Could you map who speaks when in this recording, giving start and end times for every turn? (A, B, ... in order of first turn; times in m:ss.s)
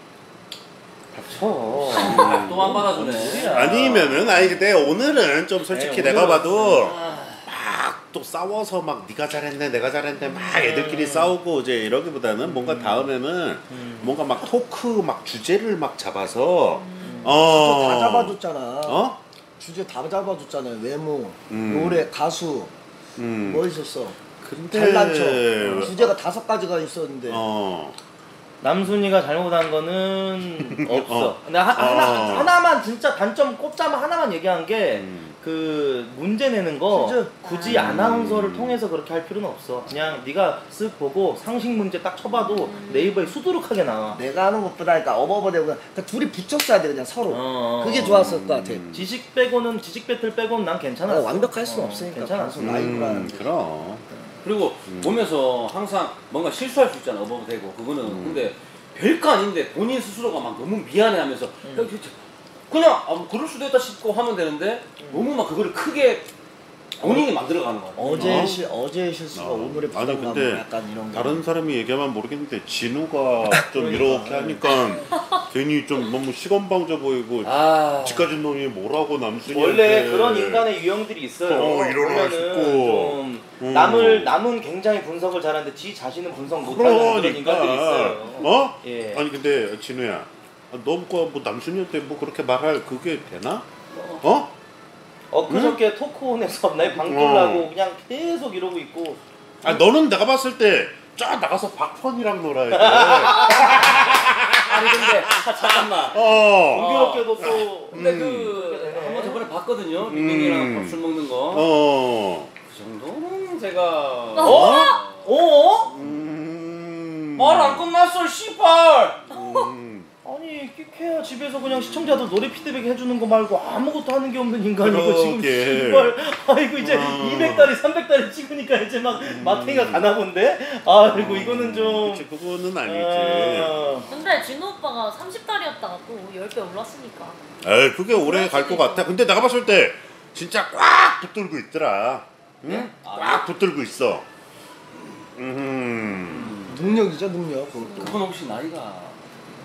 0:01.1-0:04.6 A
0:01.9-0:04.0 B
0:01.9-0:19.2 C
0:05.7-0:06.8 A
0:06.6-0:07.4 B
0:10.4-0:11.4 A
0:12.4-0:13.1 A
0:13.7-0:14.2 A
0:16.8-0:17.3 D
0:17.0-0:17.4 A
0:17.4-0:22.7 E
0:21.5-0:22.1 C
0:23.2-0:23.6 C
0:23.4-0:27.4 E
0:24.4-0:26.2 C
0:25.6-0:25.9 A
0:27.3-0:28.0 C
0:28.6-0:44.2 A
0:30.6-0:32.5 C
0:34.9-0:35.3 C
0:36.9-0:37.4 E
0:37.5-0:37.8 D
0:37.6-0:38.8 C
0:42.7-0:43.1 D
0:44.1-0:48.8 E
0:47.3-0:48.3 A
0:47.9-0:49.1 C
0:48.9-0:53.2 A
0:51.1-0:53.5 E
0:52.6-0:54.0 C
0:54.4-1:02.1 B
0:54.9-0:55.2 C
0:58.0-0:58.5 C
1:01.6-1:01.9 A
1:02.7-1:06.2 B
1:05.0-1:05.2 A
1:07.0-1:08.5 B
1:07.0-1:07.3 E
1:08.0-1:11.4 E
1:08.1-1:08.7 C
1:09.3-1:20.7 C
1:13.7-1:14.6 A
1:15.1-1:15.4 D
1:17.4-1:18.3 B
1:19.5-1:29.2 A
1:21.4-1:24.4 C
1:26.4-1:33.6 C
1:33.9-1:34.2 B
1:34.2-1:34.5 C
1:35.3-1:39.8 A
1:35.5-1:35.8 C
1:36.9-1:37.7 C
1:39.6-1:48.6 C
1:42.7-1:43.9 A
1:43.8-1:47.3 B
1:46.7-1:49.4 A
1:47.9-1:51.7 B
1:50.0-1:52.5 C
1:52.6-1:55.2 B
1:54.4-1:55.0 D
1:54.4-1:54.9 C
1:54.4-1:55.9 A
1:55.9-1:57.9 C
1:57.3-1:59.2 B
1:59.3-2:00.1 C
1:59.3-1:59.7 D
2:00.2-2:12.3 A
2:04.8-2:06.2 C
2:06.8-2:07.7 C
2:09.2-2:10.1 C
2:11.0-2:13.7 C
2:12.8-2:14.1 A
2:14.1-2:17.4 D
2:17.6-2:24.2 C
2:18.1-2:19.1 D
2:23.0-2:23.5 B
2:25.3-2:26.6 C
2:26.3-2:26.8 B
2:26.6-2:28.2 E
2:28.0-2:29.2 B